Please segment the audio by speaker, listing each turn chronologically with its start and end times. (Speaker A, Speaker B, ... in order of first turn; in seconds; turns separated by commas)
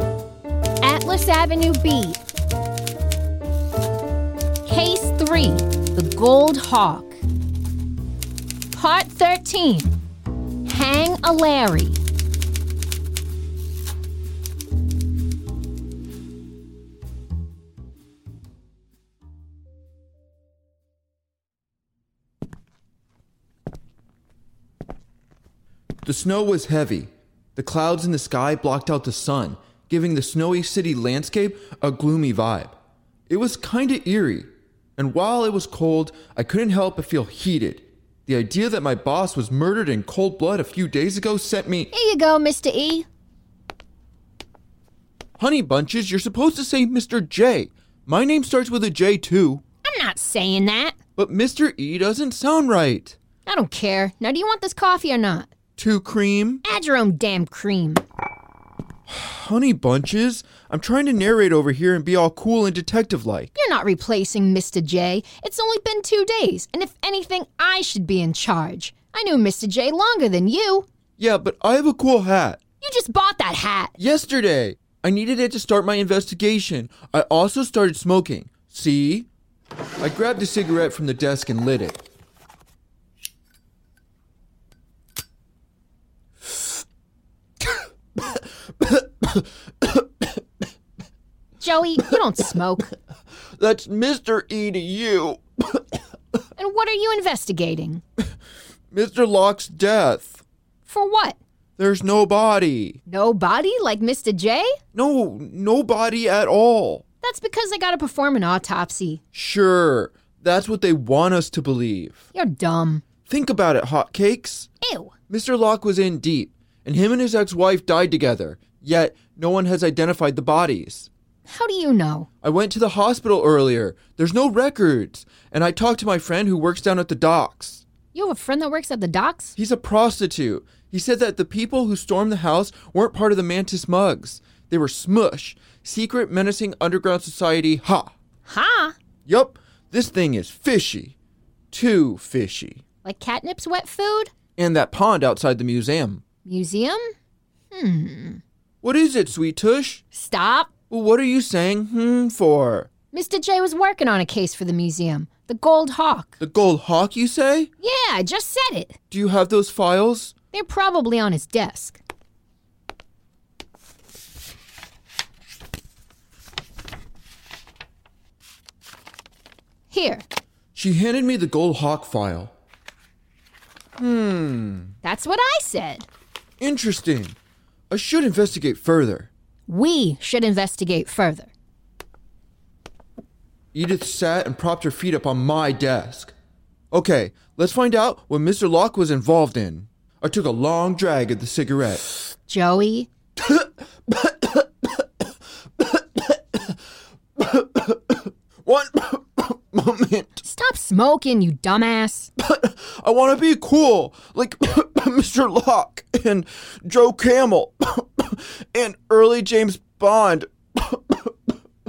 Speaker A: 0.8-2.2, Speaker A: 4.7-7.2, Speaker A: 8.7-10.0, Speaker A: 10.7-12.0, Speaker B: 26.0-32.8, Speaker B: 33.3-41.9, Speaker A: 41.9-43.1, Speaker B: 45.4-49.6, Speaker A: 49.9-51.0, Speaker B: 51.2-53.2, Speaker A: 53.5-55.5, Speaker B: 55.8-56.6, Speaker A: 56.6-58.0, Speaker B: 59.1-63.5, Speaker A: 63.5-70.9, Speaker B: 71.2-72.6, Speaker A: 72.8-73.9, Speaker B: 74.0-79.3, Speaker B: 80.0-82.0, Speaker B: 88.2-90.4, Speaker A: 91.6-92.9, Speaker B: 93.6-96.0, Speaker A: 96.6-98.0, Speaker B: 98.9-100.4, Speaker A: 100.9-101.4, Speaker B: 101.8-103.0, Speaker A: 103.1-104.8, Speaker B: 104.9-107.0, Speaker A: 107.2-109.2, Speaker B: 109.3-112.3, Speaker A: 112.3-113.0, Speaker B: 113.3-114.7, Speaker A: 114.8-115.1, Speaker B: 115.3-121.1, Speaker A: 121.5-122.3, Speaker B: 122.4-127.8, Speaker A: 128.1-129.6, Speaker B: 129.6-138.1, Speaker A: 138.5-138.9, Speaker B: 139.3-141.2, Speaker B: 141.7-142.8, Speaker A: 143.0-144.3, Speaker B: 144.6-146.2, Speaker A: 146.4-147.2, Speaker A: 147.7-148.4, Speaker B: 148.8-150.0, Speaker A: 150.1-150.7, Speaker B: 150.9-152.9, Speaker A: 153.1-156.4, Speaker B: 156.4-157.7, Speaker A: 157.8-159.0, Speaker B: 159.1-160.3, Speaker A: 160.5-162.0, Speaker A: 169.9-170.2, Speaker B: 170.8-172.5, Speaker B: 174.0-174.9, Speaker A: 175.0-176.1, Speaker B: 176.6-177.4, Speaker B: 177.9-179.3, Speaker A: 179.7-181.5, Speaker B: 183.7-186.3, Speaker B: 186.9-192.1, Speaker A: 192.5-193.1, Speaker B: 193.4-195.2, Speaker B: 195.8-196.8, Speaker B: 197.4-200.4, Speaker A: 200.4-202.3, Speaker B: 202.4-211.5